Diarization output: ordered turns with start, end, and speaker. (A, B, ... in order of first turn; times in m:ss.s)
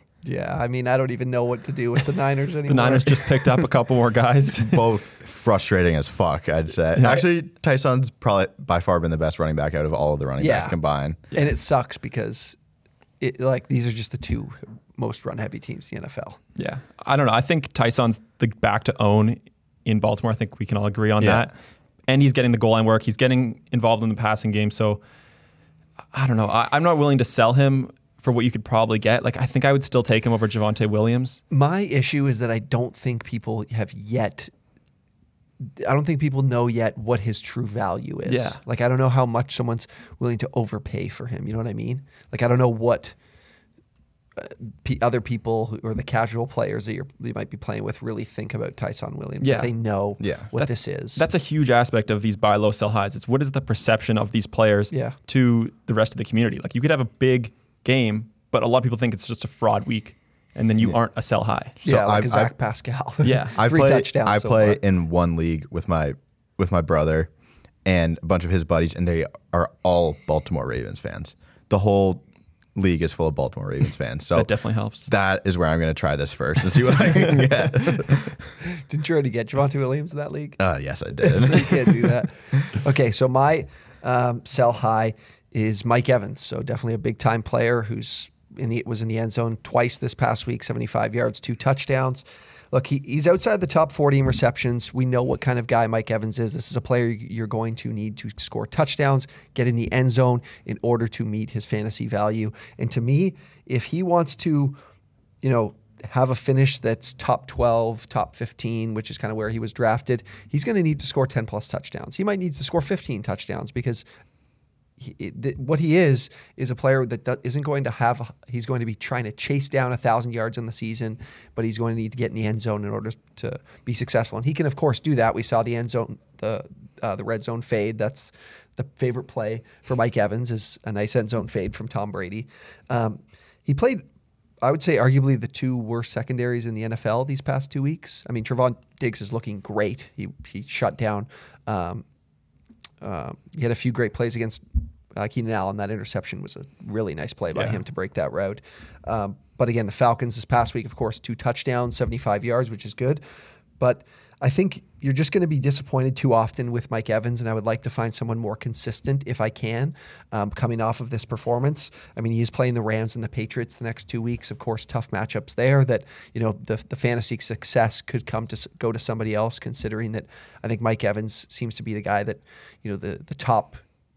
0:00.2-0:03.6 A
0:02.7-0:04.9 B
0:04.6-0:11.2 C
0:07.0-0:07.2 B
0:10.4-0:10.8 A
0:11.3-0:12.6 A
0:13.2-0:16.4 A
0:16.6-0:21.5 B
0:21.2-0:21.4 C
0:22.1-0:25.0 B
0:26.1-0:31.4 B
0:31.5-0:34.5 A
0:35.8-0:43.1 A
0:38.2-0:38.6 B
0:44.4-0:51.2 A
0:49.4-0:49.7 B
0:50.2-0:50.5 C
0:50.5-1:01.7 B
0:54.9-0:55.2 A
1:01.8-1:02.5 C
1:01.8-1:04.8 A
1:03.2-1:03.6 B
1:03.5-1:07.3 C
1:07.8-1:12.2 C
1:12.7-1:14.5 C
1:14.3-1:15.1 B
1:15.0-1:18.4 C
1:18.6-1:20.6 A
1:20.6-1:22.1 C
1:21.2-1:44.8 A
1:45.4-1:54.0 A
1:55.0-2:14.0 A
2:14.6-2:22.0 A
2:23.0-2:24.6 A
2:25.1-2:33.2 A
2:33.8-2:53.8 A